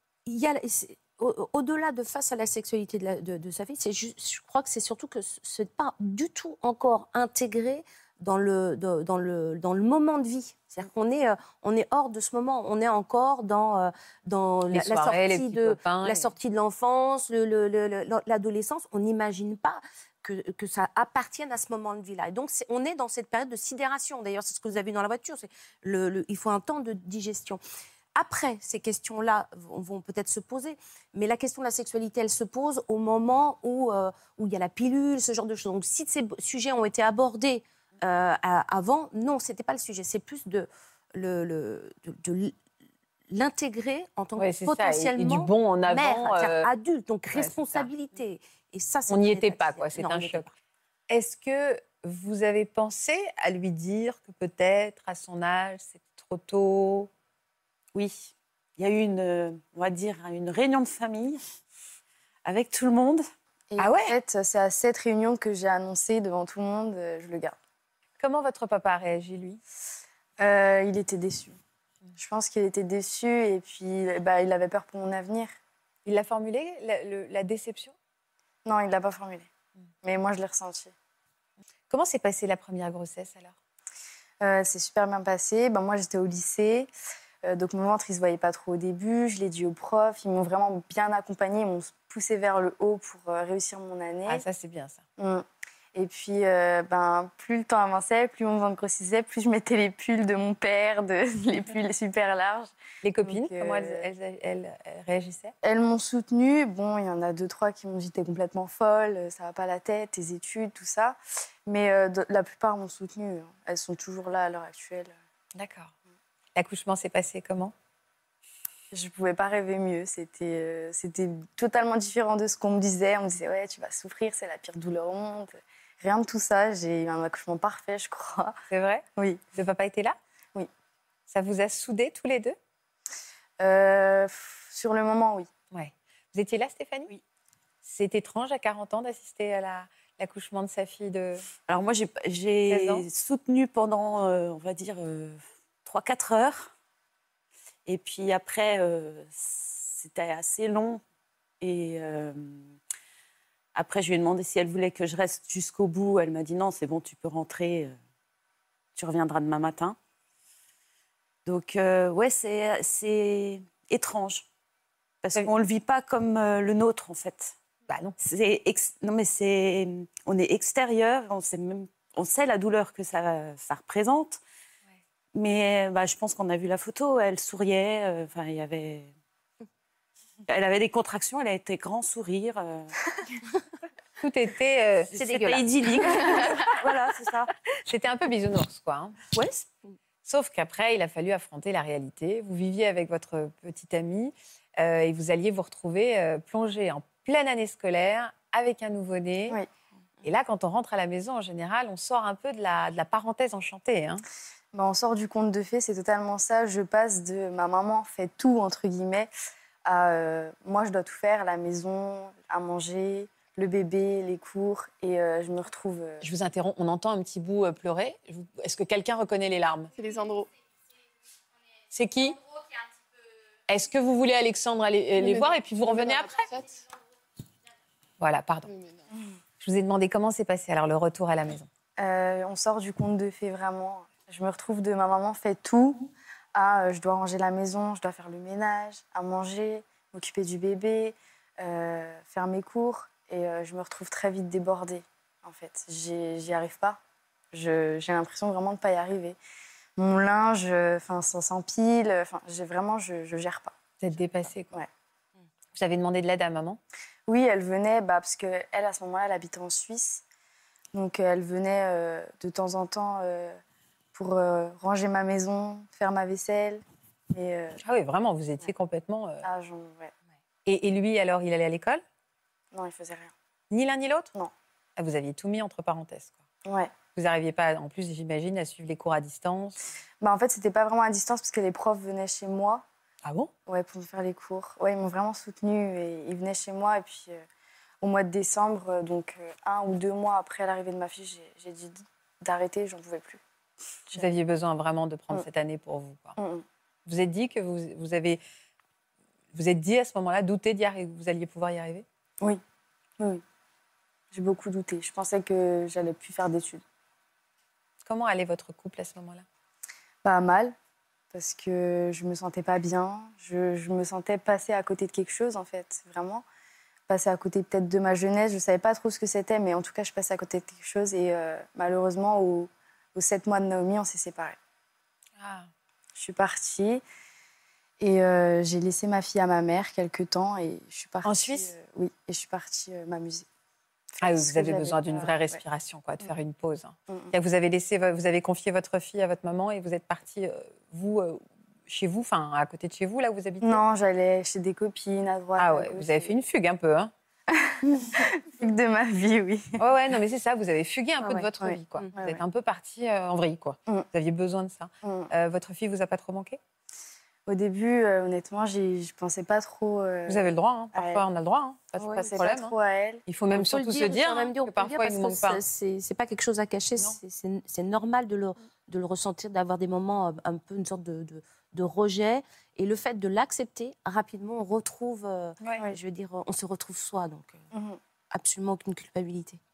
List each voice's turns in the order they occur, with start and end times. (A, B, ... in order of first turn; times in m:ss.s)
0:00.3-0:27.6 A
0:14.7-0:16.3 B
0:28.2-0:42.6 A
0:43.3-0:50.5 A
0:44.4-0:46.7 B
0:47.3-0:47.9 B
0:49.1-0:50.5 B
0:51.1-0:57.1 B
0:57.9-1:01.4 C
1:02.4-1:03.2 C
1:03.7-1:07.6 D
1:03.8-1:04.2 B
1:08.2-1:09.6 B
1:10.4-1:11.6 D
1:12.2-1:15.5 D
1:16.1-1:18.0 B
1:18.6-1:19.5 D
1:20.0-1:20.9 D
1:21.9-1:23.5 B
1:24.4-1:26.9 D
1:27.4-1:34.4 D
1:34.3-1:35.0 B
1:35.2-1:42.7 D
1:43.0-1:45.5 B
1:43.2-1:44.0 D
1:45.6-1:55.1 D
1:55.6-1:55.9 B
1:56.6-1:57.7 B
1:58.9-2:08.6 D
2:08.7-2:09.0 B
2:09.6-2:10.2 B
2:11.3-2:12.6 B
2:13.6-2:15.5 D
2:15.7-2:17.1 B
2:17.8-2:21.5 B
2:21.7-2:26.7 C
2:22.7-2:23.0 B
2:27.9-2:31.0 C
2:31.6-2:32.7 C
2:33.7-2:38.0 C
2:39.0-2:40.0 C
2:41.4-2:44.5 C
2:45.2-2:47.6 C
2:47.9-2:48.2 B
2:48.2-2:54.4 C
2:55.3-2:59.1 C
3:00.5-3:02.9 C
3:04.2-3:05.1 B
3:05.1-3:07.5 C
3:05.1-3:06.8 A
3:07.9-3:09.2 B
3:09.4-3:09.6 C
3:10.2-3:19.6 B
3:20.2-3:24.2 B
3:24.7-3:29.3 D
3:29.9-3:36.2 D
3:36.2-3:39.9 B
3:40.0-3:40.5 E
3:41.9-3:42.4 B
3:43.7-3:46.6 B
3:45.2-3:46.8 E
3:48.2-3:48.7 B
3:48.7-3:49.1 E
3:49.6-3:51.7 B
3:52.0-4:07.0 D
4:07.5-4:09.4 D
4:10.0-4:13.8 D
4:14.0-4:14.8 B
4:15.8-4:16.8 B
4:17.3-4:20.2 D
4:20.9-4:23.6 D
4:24.1-4:27.8 D
4:27.8-4:29.5 B
4:29.4-4:30.1 D
4:30.7-4:32.0 B
4:32.7-4:33.3 D
4:33.7-4:34.3 B
4:35.0-4:36.4 B
4:36.6-4:36.9 D
4:37.2-4:39.8 B
4:40.2-4:42.8 D
4:43.2-4:43.5 B
4:43.7-4:47.4 D
4:48.0-4:53.4 D
4:54.1-4:56.4 B
4:56.4-4:56.6 D
4:57.1-4:58.4 B
4:59.5-5:02.0 B
5:04.3-5:06.8 D
5:08.0-5:09.4 B
5:10.2-5:10.8 D
5:11.3-5:16.4 D
5:17.1-5:24.6 D
5:25.4-5:25.7 B
5:26.2-5:27.0 D
5:28.0-5:33.5 D
5:31.2-5:31.7 B
5:34.2-5:35.6 D
5:34.2-5:43.8 B
5:43.6-5:46.3 D
5:45.6-5:47.1 B
5:47.5-5:49.8 D
5:49.8-5:56.6 B
5:51.3-5:52.1 A
5:51.6-5:52.4 D
5:55.0-5:55.3 D
5:57.5-6:01.2 D
6:00.3-6:02.7 B
6:02.0-6:02.3 A
6:02.1-6:03.2 D
6:03.3-6:05.6 B
6:03.5-6:17.6 A
6:17.7-6:18.0 D
6:18.3-6:19.6 A